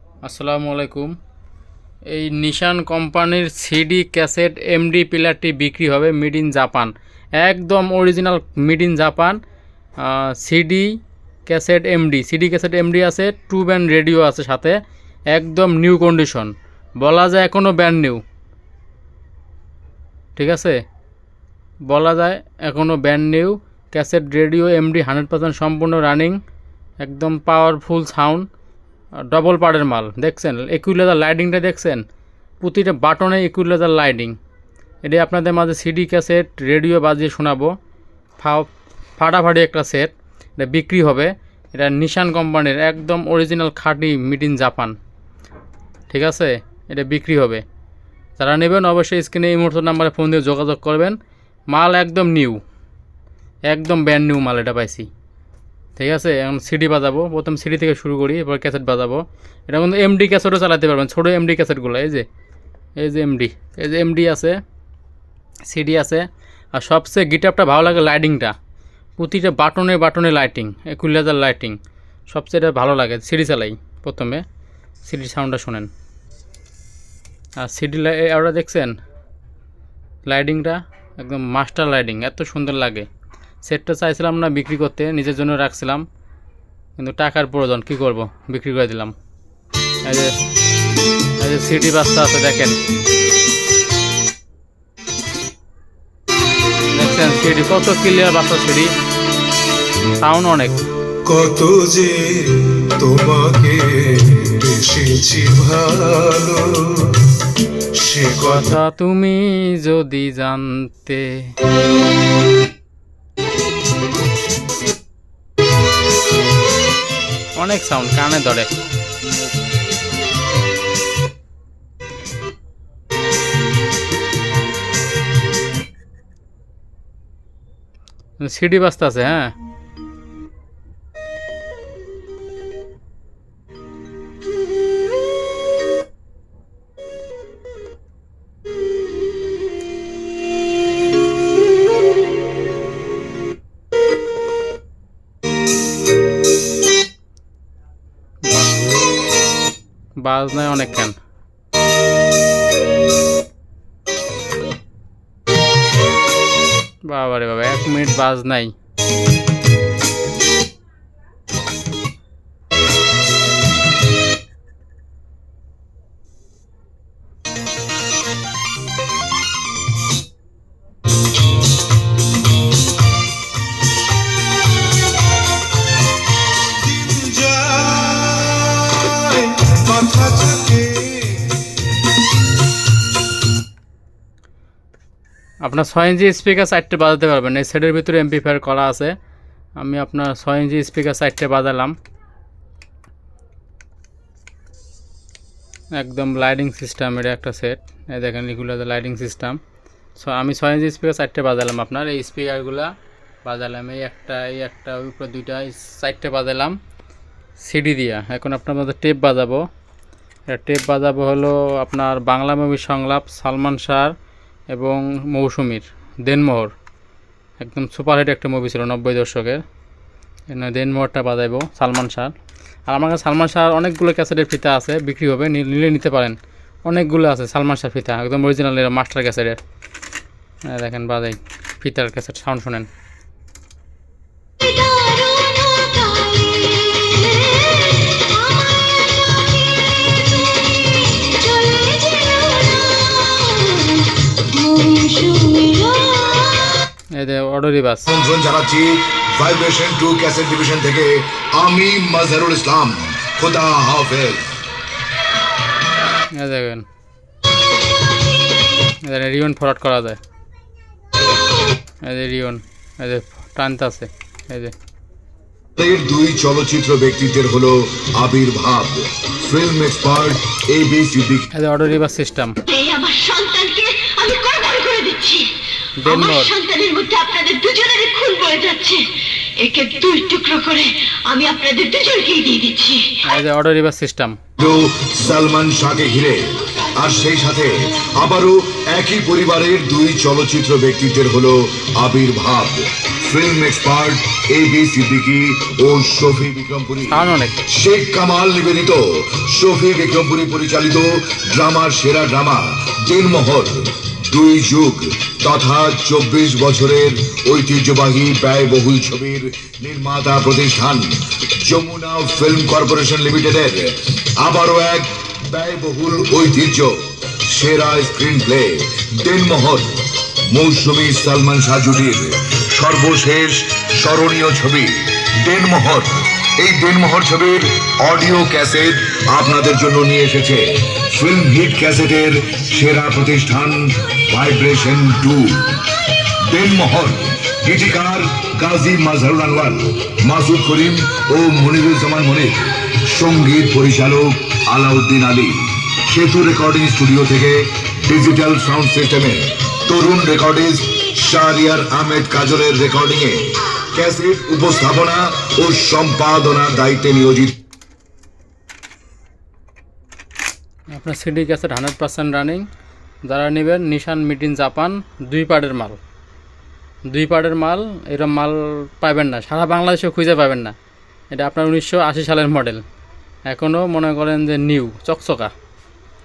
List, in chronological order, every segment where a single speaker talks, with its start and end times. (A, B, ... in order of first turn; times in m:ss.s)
0:00.2-0:01.2 A
0:02.1-0:09.4 A
0:10.0-0:14.8 A
0:15.3-0:18.2 A
0:20.4-0:20.8 A
0:21.8-0:26.4 A
0:27.0-0:28.5 A
0:29.2-0:32.0 A
0:32.6-0:34.4 A
0:35.0-0:37.7 A
0:38.4-0:45.0 A
0:46.1-0:47.6 A
0:48.4-0:51.2 A
0:51.7-0:52.6 A
0:53.7-0:55.1 A
0:56.0-1:02.2 A
1:03.0-1:04.6 A
1:05.7-1:08.6 A
1:09.2-1:14.4 A
1:15.0-1:15.9 A
1:17.6-1:19.0 A
1:20.2-1:23.1 A
1:23.6-1:26.0 A
1:27.0-1:29.2 A
1:30.0-1:30.4 A
1:31.4-1:32.8 A
1:36.9-1:38.9 A
1:40.2-1:40.8 A
1:41.2-1:47.3 B
1:47.9-1:48.6 B
1:48.4-1:51.5 A
1:57.6-1:58.8 A
2:08.4-2:09.5 A
2:28.4-2:28.9 A
2:30.2-2:31.2 A
2:37.0-2:38.8 A
2:56.8-3:01.5 B
3:05.6-3:09.2 A
3:09.8-3:12.0 A
3:15.9-3:19.6 A
3:20.2-3:22.9 A
3:23.4-3:26.8 A
3:27.6-3:29.7 A
3:30.5-3:34.1 A
3:34.7-3:36.7 A
3:37.6-3:39.6 A
3:40.5-3:42.3 A
3:42.9-3:49.6 A
3:50.7-3:52.9 A
3:54.6-3:59.4 C
4:01.2-4:06.6 C
4:07.1-4:08.1 A
4:08.1-4:14.6 D
4:16.4-4:16.8 A
4:19.0-4:20.2 A
4:22.0-4:24.7 A
4:25.8-4:31.5 D
4:31.5-4:32.6 A
4:32.7-4:35.5 C
4:36.0-4:36.5 A
4:36.0-4:43.3 C
4:43.2-4:44.4 A
4:44.6-5:57.6 D
4:57.0-4:57.6 A
6:00.9-6:02.7 A
6:03.2-6:06.0 A
6:07.1-6:10.8 A
6:11.3-6:12.8 A
6:13.4-6:15.5 A